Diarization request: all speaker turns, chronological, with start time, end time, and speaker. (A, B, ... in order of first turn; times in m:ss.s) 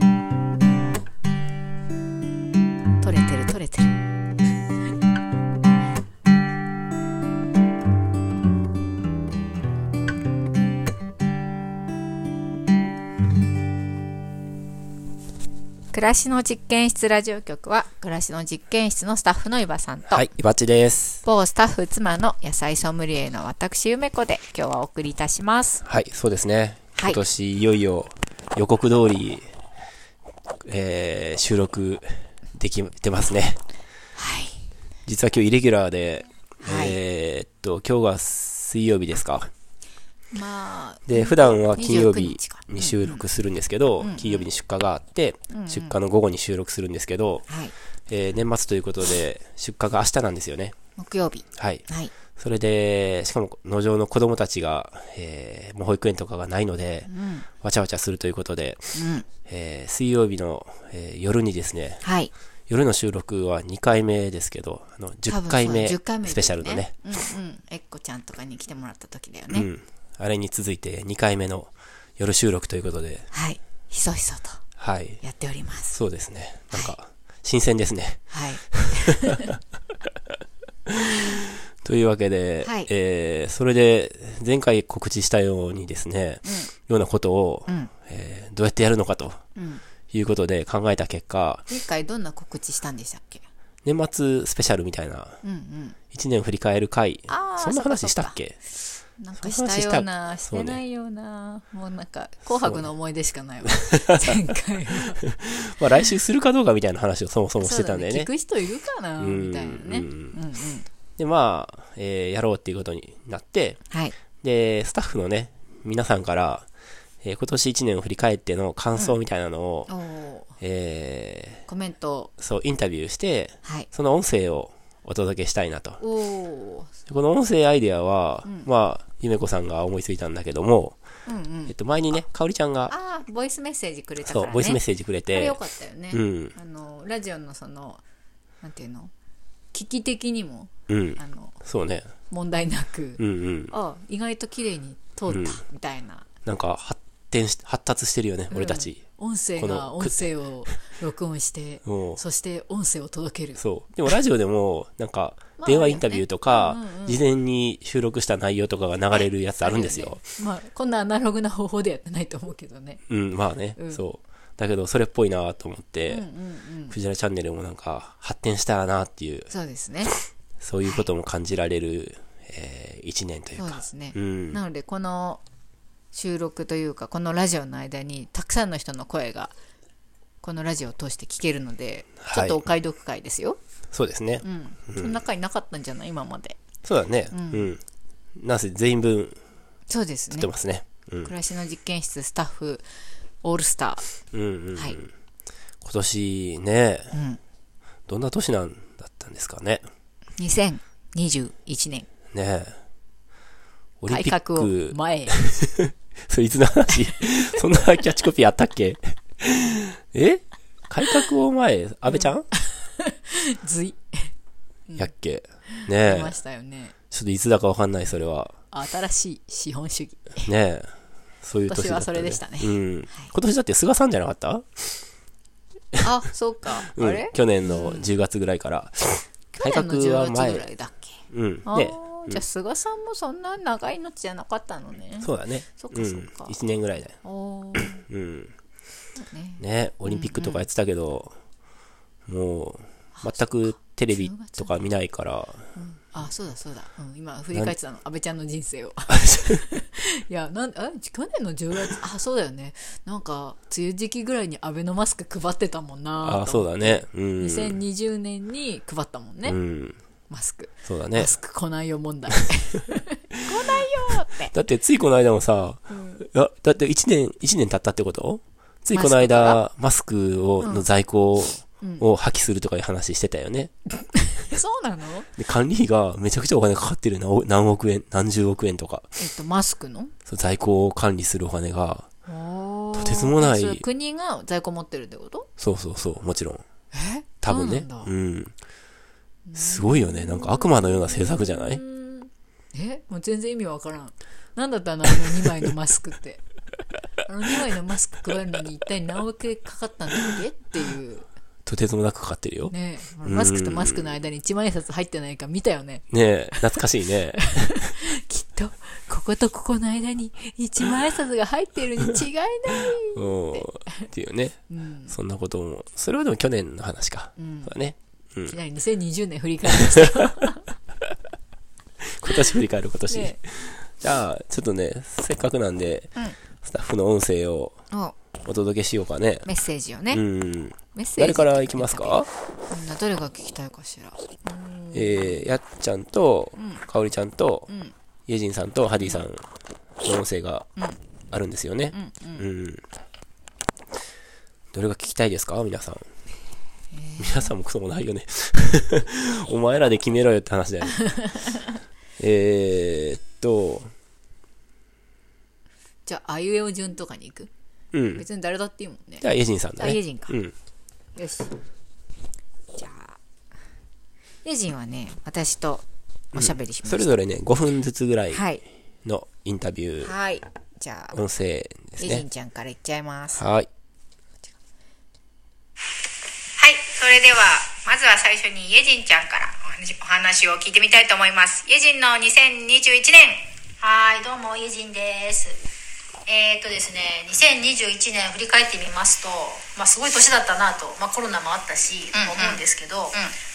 0:03.0-0:04.0 A
0:15.9-0:20.3 A
0:20.1-0:21.2 B
0:21.2-0:25.8 A
0:25.8-0:29.5 B
0:30.6-0:33.6 B
0:34.2-0:34.7 A
0:35.0-0:39.5 B
0:36.6-0:37.0 A
0:40.3-0:43.2 A
0:41.1-0:47.5 B
0:44.0-0:44.4 A
0:45.5-0:46.0 A
0:47.5-0:47.7 A
0:48.1-0:50.8 B
0:51.0-0:52.1 A
0:51.6-0:51.8 B
0:52.4-0:57.1 B
0:57.0-0:57.5 A
0:57.6-0:58.9 B
0:58.9-0:59.3 A
0:59.5-1:02.0 B
1:02.0-1:02.3 A
1:02.7-1:06.9 B
1:05.3-1:09.7 A
1:09.5-1:13.3 B
1:13.3-1:14.6 A
1:14.8-1:15.2 B
1:15.2-1:16.0 A
1:15.9-1:19.4 B
1:16.7-1:17.0 A
1:18.3-1:19.5 A
1:20.9-1:21.2 B
1:21.8-1:29.4 B
1:22.6-1:22.9 A
1:26.4-1:26.7 A
1:27.7-1:27.9 A
1:29.6-1:29.8 A
1:30.1-1:31.6 B
1:31.7-1:33.4 A
1:33.8-1:35.4 B
1:35.4-1:36.0 A
1:36.1-1:38.6 B
1:37.3-1:38.4 A
1:39.2-1:45.2 A
1:39.4-1:40.8 B
1:42.6-1:42.9 B
1:43.8-1:44.3 B
1:44.9-1:48.3 B
1:47.6-1:50.9 A
1:49.2-1:50.4 B
1:51.2-1:53.8 B
1:53.9-1:54.2 A
1:54.4-1:56.7 B
1:57.2-1:59.9 B
1:59.9-2:00.5 A
2:00.6-2:01.6 B
2:01.7-2:02.3 A
2:02.4-2:06.0 B
2:06.0-2:06.9 A
2:07.1-2:11.0 B
2:11.3-2:11.7 A
2:11.7-2:12.9 B
2:12.9-2:18.0 A
2:14.2-2:15.6 B
2:16.1-2:16.6 B
2:18.6-2:19.1 A
2:19.7-2:21.6 A
2:20.9-2:22.1 B
2:22.3-2:26.3 A
2:23.2-2:23.7 B
2:25.3-2:25.6 B
2:26.4-2:29.0 B
2:28.5-2:33.6 A
2:29.6-2:30.2 B
2:31.8-2:32.2 B
2:33.6-2:40.2 B
2:35.6-2:37.2 A
2:39.1-2:43.0 A
2:43.1-2:46.3 B
2:43.8-2:44.0 A
2:46.1-2:47.0 A
2:46.9-2:49.5 B
2:49.5-2:50.1 A
2:50.1-2:54.6 B
2:53.6-2:55.4 A
2:56.1-2:59.5 A
3:00.4-3:03.6 A
3:02.2-3:02.6 B
3:03.9-3:05.2 B
3:04.4-3:06.6 A
3:06.8-3:07.8 B
3:07.3-3:07.8 A
3:08.4-3:09.4 B
3:09.9-3:10.5 A
3:10.3-3:11.3 B
3:11.2-3:12.8 A
3:13.4-3:14.1 A
3:14.3-3:15.1 B
3:15.8-3:17.2 B
3:17.1-3:17.4 A
3:18.1-3:19.9 B
3:20.4-3:22.1 A
3:22.3-3:22.8 B
3:24.0-3:32.5 B
3:24.1-3:25.3 A
3:32.1-3:34.3 A
3:35.0-3:36.4 B
3:35.7-3:36.9 A
3:37.1-3:38.6 B
3:38.7-3:40.5 A
3:40.4-3:45.0 B
3:41.7-3:43.3 A
3:46.0-3:48.1 A
3:46.9-3:50.7 B
3:49.5-3:56.6 A
3:51.3-3:52.4 B
3:55.2-3:57.2 B
3:57.2-3:58.0 A
3:57.8-3:58.5 B
3:59.2-4:00.6 A
3:59.6-4:01.4 B
4:02.3-4:05.7 B
4:03.2-4:04.8 A
4:05.8-4:19.6 A
4:09.1-4:09.6 B
4:16.2-4:17.8 B
4:19.4-4:20.0 B
4:20.3-4:24.5 A
4:20.8-4:21.4 B
4:24.5-4:33.7 B
4:25.9-4:26.3 A
4:28.9-4:29.6 A
4:30.6-4:30.9 A
4:31.8-4:32.0 A
4:34.2-4:35.3 A
4:35.4-4:39.2 B
4:39.2-4:40.1 A
4:40.3-4:42.1 B
4:42.3-4:45.5 A
4:42.9-4:43.8 B
4:45.6-4:46.6 B
4:46.9-4:48.1 A
4:47.4-4:48.5 B
4:49.5-4:56.4 A
4:49.6-4:51.8 B
4:57.2-5:01.3 A
5:01.6-5:04.2 B
5:02.7-5:06.1 A
5:06.1-5:07.9 B
5:07.6-5:13.7 A
5:13.1-5:18.6 B
5:14.7-5:15.2 A
5:17.4-5:17.7 A
5:18.5-5:20.6 A
5:19.7-5:20.2 B
5:22.0-5:27.8 B
5:23.1-5:23.4 A
5:27.9-5:28.2 A
5:28.4-5:29.5 B
5:29.4-5:30.2 A
5:30.1-5:32.3 B
5:30.9-5:35.5 A
5:34.9-5:37.7 B
5:36.6-5:36.8 A
5:37.7-5:37.9 A
5:38.3-5:39.4 B
5:40.0-5:40.7 B
5:41.3-5:42.8 B
5:41.9-5:42.5 A
5:44.7-5:46.1 B
5:46.9-5:47.5 A
5:47.2-5:51.2 B
5:51.1-5:51.6 A
5:52.2-5:53.9 B
5:56.1-5:57.5 A
5:57.9-5:58.3 B
5:58.2-6:00.4 A
5:59.2-6:00.6 B
6:01.2-6:01.5 A
6:02.8-6:03.2 A
6:04.4-6:07.1 A
6:06.3-6:08.5 B
6:08.3-6:08.6 A
6:09.0-6:10.1 B
6:10.0-6:11.2 A
6:11.1-6:12.2 B
6:12.0-6:13.4 A
6:13.4-6:13.7 B
6:16.6-6:23.5 C
6:23.8-6:25.6 D
6:26.3-6:33.2 D
6:32.1-6:33.4 C